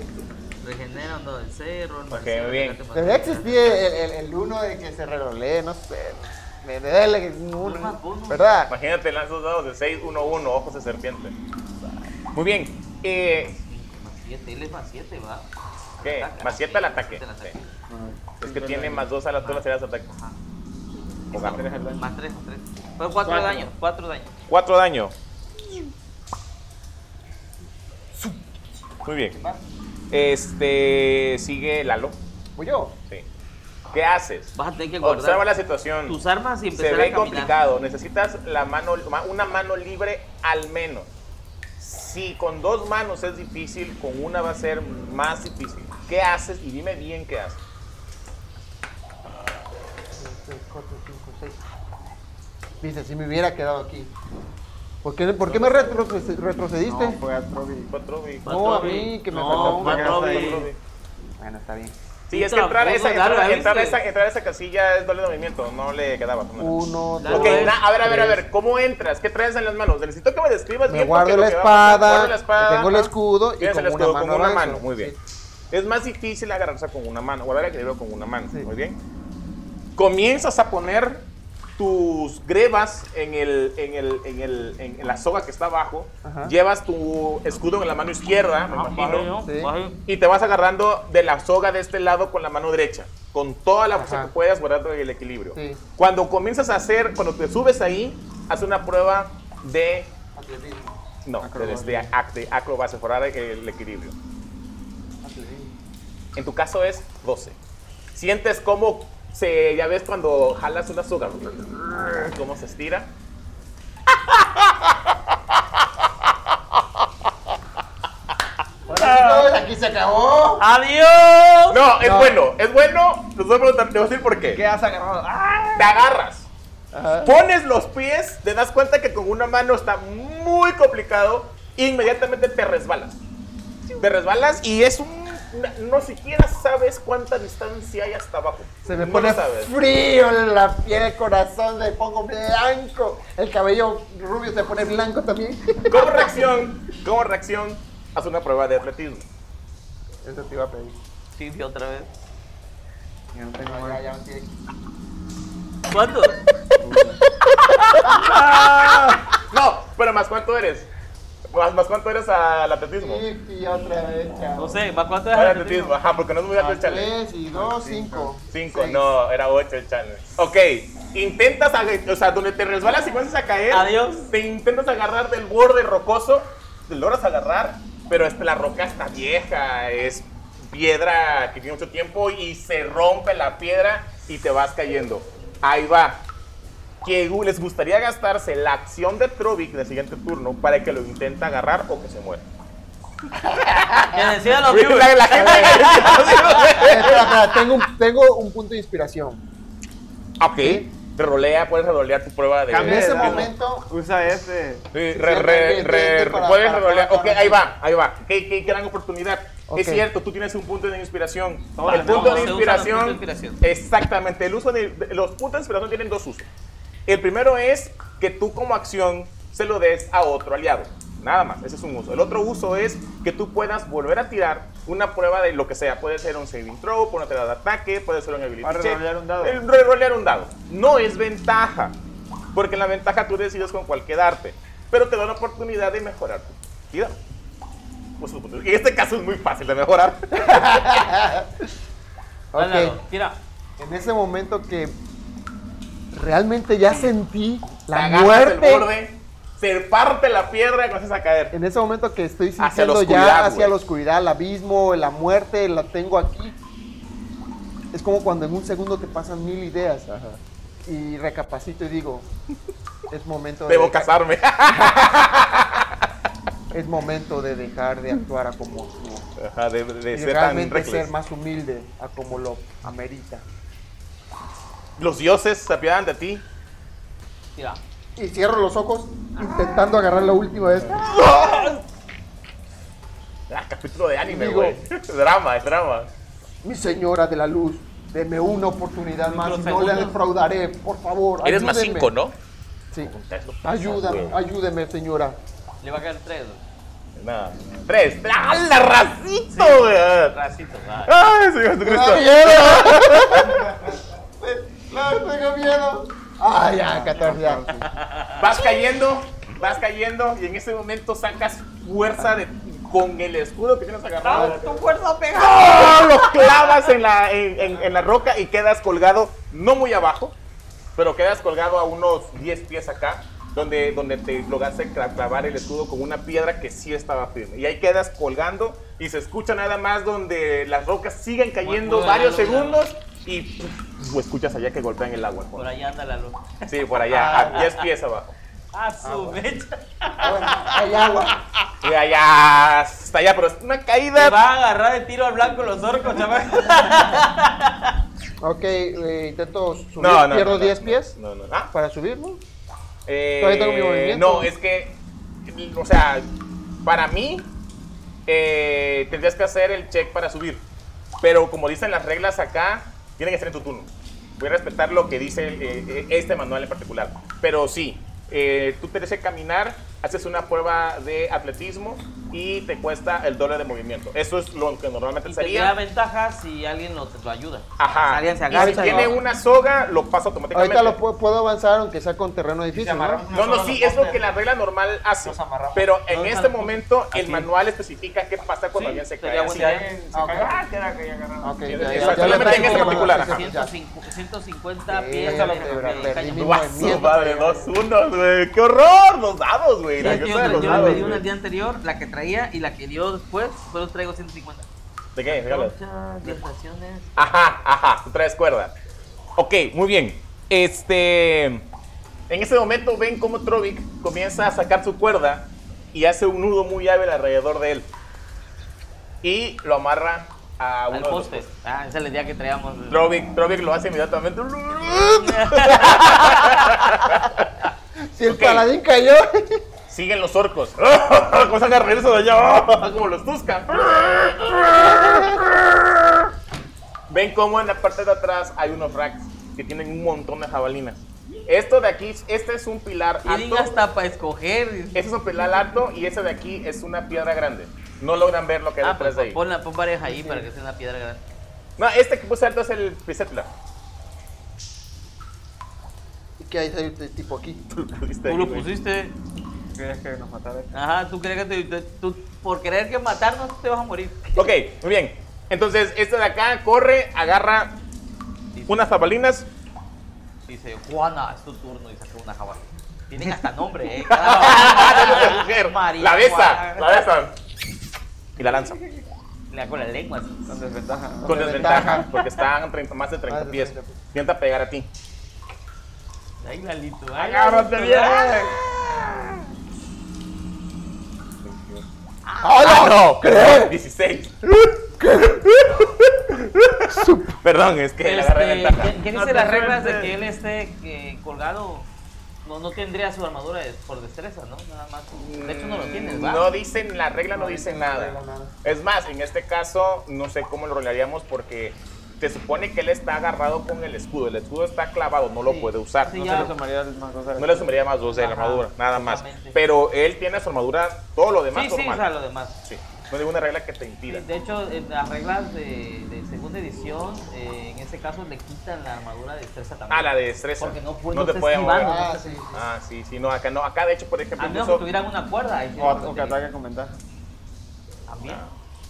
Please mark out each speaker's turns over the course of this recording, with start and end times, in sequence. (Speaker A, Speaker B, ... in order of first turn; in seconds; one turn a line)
Speaker A: 0.6-3.9
Speaker B: 2.1-2.8
Speaker C: 2.9-8.7
Speaker A: 7.6-8.5
Speaker B: 8.7-11.3
Speaker B: 12.3-13.6
Speaker A: 13.4-15.5
Speaker B: 16.0-17.6
Speaker A: 16.0-17.7
Speaker D: 17.9-19.1
Speaker B: 18.4-20.1
Speaker A: 19.4-20.4
Speaker B: 21.3-21.6
Speaker D: 21.3-22.1
Speaker A: 22.0-24.3
Speaker C: 23.2-23.7
Speaker B: 24.5-25.1
Speaker C: 28.1-28.6
Speaker B: 29.0-29.4
Speaker C: 29.3-29.6
Speaker B: 30.1-32.2
Speaker C: 32.6-33.0
Speaker B: 33.9-36.2
Speaker A: 34.5-35.4
Speaker A: 36.1-37.5
Speaker B: 36.7-41.1
Speaker B: 41.8-47.6
Speaker C: 50.1-51.6
Speaker C: 52.8-54.1
Speaker C: 55.0-57.2
Speaker D: 55.5-56.2
Speaker D: 56.8-57.9
Speaker B: 57.9-59.0
Speaker A: 58.4-60.7
Speaker C: 58.5-60.7
Speaker D: 59.5-60.7
Speaker B: 60.0-60.8
Speaker C: 61.4-62.0
Speaker B: 62.3-75.1
Speaker A: 62.3-64.0
Speaker C: 66.6-68.4
Speaker A: 67.2-67.8
Speaker C: 70.9-75.2
Speaker B: 75.7-79.0
Speaker B: 80.0-81.3
Speaker B: 81.8-89.3
Speaker C: 86.2-86.5
Speaker A: 88.7-90.0
Speaker C: 89.4-89.7
Speaker B: 90.1-100.1
Speaker C: 93.9-94.3
Speaker C: 95.5-95.8
Speaker C: 100.3-101.0
Speaker B: 101.2-104.1
Speaker D: 101.4-102.1
Speaker C: 105.2-105.7
Speaker B: 106.4-107.6
Speaker B: 108.1-113.1
Speaker C: 118.9-120.6
Speaker A: 118.9-119.5
Speaker A: 120.6-121.8
Speaker B: 121.7-124.6
Speaker C: 122.0-122.4
Speaker D: 124.5-126.0
Speaker B: 125.8-126.5
Speaker C: 126.9-127.4
Speaker B: 127.2-133.2
Speaker B: 134.0-139.7
Speaker C: 138.8-146.5
Speaker B: 145.9-149.2
Speaker C: 150.2-151.0
Speaker A: 151.3-152.1
Speaker D: 153.3-154.0
Speaker C: 153.6-154.5
Speaker A: 155.9-156.4
Speaker D: 156.8-157.2
Speaker B: 157.7-160.9
Speaker B: 161.5-163.2
Speaker C: 163.0-164.8
Speaker A: 164.6-165.9
Speaker B: 165.3-167.1
Speaker C: 166.6-169.1
Speaker D: 167.5-168.3
Speaker B: 168.5-186.2
Speaker A: 173.7-174.3
Speaker B: 187.0-192.5
Speaker C: 193.5-194.0
Speaker B: 193.8-197.6
Speaker A: 194.1-196.8
Speaker C: 195.3-199.4
Speaker B: 200.4-203.5
Speaker C: 200.6-200.9
Speaker D: 202.7-204.9
Speaker C: 202.7-203.9
Speaker B: 204.9-216.5
Speaker C: 205.1-207.7
Speaker C: 209.7-210.1
Speaker D: 211.8-212.6
Speaker A: 211.9-213.6
Speaker B: 217.1-232.0
Speaker D: 228.6-229.6
Speaker B: 232.5-237.2
Speaker B: 238.2-240.9
Speaker C: 240.3-241.7
Speaker C: 242.5-243.0
Speaker A: 242.6-243.4
Speaker C: 243.8-245.0
Speaker C: 246.1-248.9
Speaker B: 247.9-251.6
Speaker C: 251.5-256.6
Speaker B: 252.6-253.8
Speaker C: 257.9-262.3
Speaker C: 263.1-264.1
Speaker B: 263.7-266.0
Speaker C: 264.7-265.0
Speaker C: 266.7-269.3
Speaker B: 269.4-271.1
Speaker C: 270.1-273.4
Speaker B: 275.0-276.4
Speaker C: 278.2-281.7
Speaker A: 281.1-281.8
Speaker B: 283.5-286.1
Speaker C: 284.2-284.8
Speaker C: 286.6-292.1
Speaker A: 289.3-290.2
Speaker B: 291.4-292.4
Speaker B: 293.0-294.4
Speaker C: 293.6-295.4
Speaker A: 295.8-296.6
Speaker B: 297.2-300.4
Speaker A: 299.5-301.1
Speaker B: 301.1-303.8
Speaker C: 301.8-307.9
Speaker D: 306.9-307.9
Speaker A: 307.9-308.4
Speaker B: 308.4-314.6
Speaker A: 314.2-316.8
Speaker B: 315.4-320.4
Speaker B: 321.0-335.7
Speaker A: 331.6-332.8
Speaker A: 335.6-336.6
Speaker B: 336.7-338.4
Speaker C: 337.1-337.7
Speaker A: 337.4-337.8
Speaker A: 338.7-340.8
Speaker C: 339.0-339.4
Speaker C: 340.2-341.4
Speaker B: 341.8-344.4
Speaker A: 344.1-347.9
Speaker C: 348.4-351.2
Speaker B: 350.0-351.7
Speaker C: 351.7-352.4
Speaker B: 353.1-356.3
Speaker C: 353.4-354.5
Speaker B: 356.8-357.5
Speaker B: 358.3-360.6
Speaker B: 361.2-375.7
Speaker A: 375.2-379.2
Speaker B: 377.8-381.0
Speaker C: 378.5-379.2
Speaker C: 380.5-383.2
Speaker D: 382.7-384.4
Speaker B: 383.3-389.8
Speaker D: 385.2-385.9
Speaker A: 386.1-387.5
Speaker A: 388.7-389.9
Speaker D: 389.4-392.7
Speaker C: 390.1-390.5
Speaker C: 391.4-393.7
Speaker B: 391.7-393.5
Speaker A: 391.9-396.6
Speaker C: 394.9-397.7
Speaker D: 395.2-396.2
Speaker B: 396.4-401.2
Speaker A: 400.0-404.7
Speaker D: 400.1-401.1
Speaker C: 400.7-401.0
Speaker B: 405.1-405.8
Speaker A: 405.3-407.2
Speaker B: 407.2-408.7
Speaker B: 409.4-411.7
Speaker B: 412.3-417.9
Speaker B: 419.2-421.5
Speaker A: 420.9-423.1
Speaker B: 422.9-427.5
Speaker A: 425.0-426.8
Speaker C: 428.0-429.6
Speaker B: 428.3-428.7
Speaker B: 429.9-435.8
Speaker B: 437.1-443.8
Speaker A: 443.2-445.0
Speaker B: 444.9-449.4
Speaker A: 448.8-451.2
Speaker C: 450.0-450.5
Speaker B: 451.8-453.5
Speaker C: 456.4-457.6
Speaker B: 457.7-458.7
Speaker A: 458.3-459.2
Speaker D: 459.8-460.8
Speaker A: 460.7-464.5
Speaker B: 464.4-467.8
Speaker A: 468.5-468.9
Speaker B: 468.7-469.5
Speaker A: 470.5-477.0
Speaker B: 474.1-477.3
Speaker B: 478.4-478.8
Speaker A: 479.5-480.6
Speaker D: 480.5-482.0
Speaker C: 481.2-482.1
Speaker B: 481.3-484.9
Speaker C: 483.3-484.0
Speaker A: 486.4-488.3
Speaker B: 487.2-488.5
Speaker D: 487.3-488.5
Speaker B: 491.4-491.8
Speaker A: 492.3-492.6
Speaker C: 492.4-493.7
Speaker B: 492.6-494.4
Speaker C: 495.0-495.5
Speaker B: 495.5-498.9
Speaker C: 496.9-497.3
Speaker A: 498.0-501.9
Speaker D: 499.1-500.1
Speaker A: 502.4-506.5
Speaker B: 505.1-516.2
Speaker C: 507.3-508.6
Speaker A: 515.4-516.5
Speaker D: 516.1-517.7
Speaker B: 517.4-522.1
Speaker A: 518.1-519.6
Speaker A: 521.5-522.6
Speaker B: 522.6-524.2
Speaker A: 524.1-532.4
Speaker B: 529.9-532.0
Speaker C: 531.8-532.7
Speaker B: 532.5-534.9
Speaker A: 534.4-536.4
Speaker D: 535.8-537.0
Speaker A: 538.1-538.4
Speaker B: 538.2-538.5